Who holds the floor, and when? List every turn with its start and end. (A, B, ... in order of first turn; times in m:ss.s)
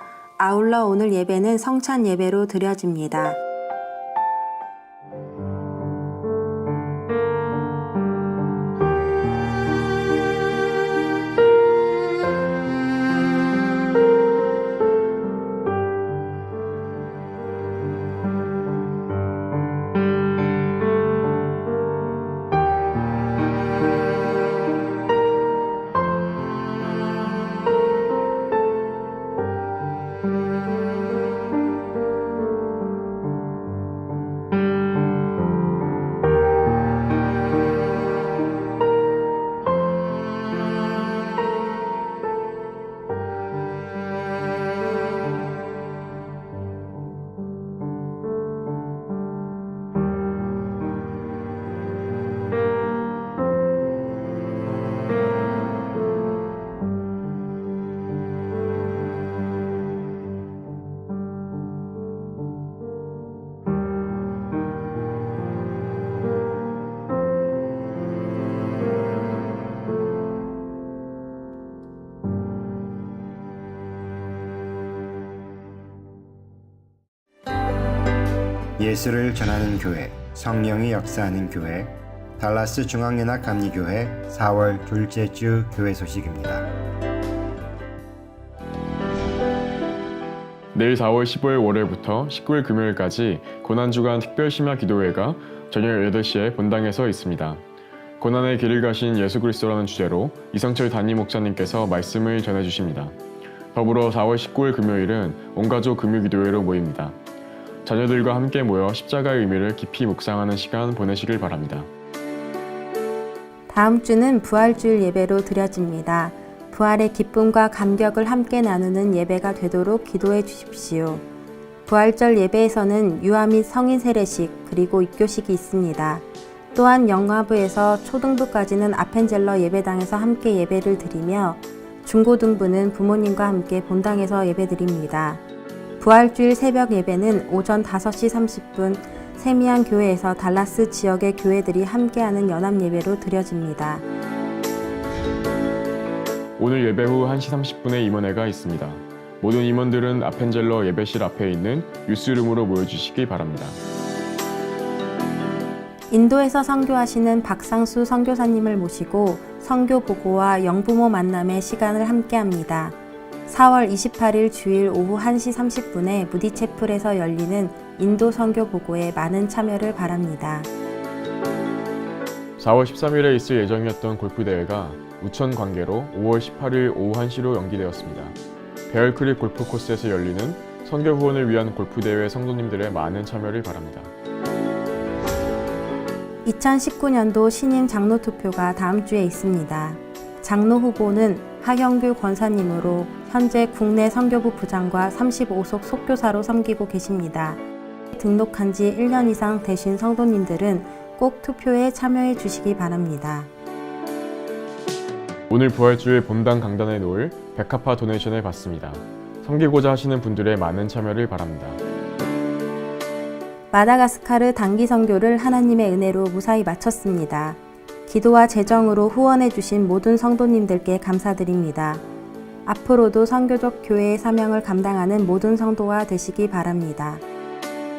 0:00.4-0:03.4 A
1:18.8-1:26.7 B
1:30.7-1:37.6 C
1:38.2-1:43.2 C
1:43.7-1:47.2 C
1:47.8-1:51.9 C
1:53.7-2:01.2 A
2:01.9-2:06.2 A
2:06.8-2:15.4 A
2:16.0-2:24.0 A
2:26.6-2:33.8 C
2:36.1-2:43.0 A
2:43.5-2:50.7 A
2:52.6-2:58.4 C
2:58.9-3:04.1 C
3:06.4-3:23.5 A
3:25.5-3:31.8 C
3:33.7-3:42.0 A
3:42.7-3:47.2 A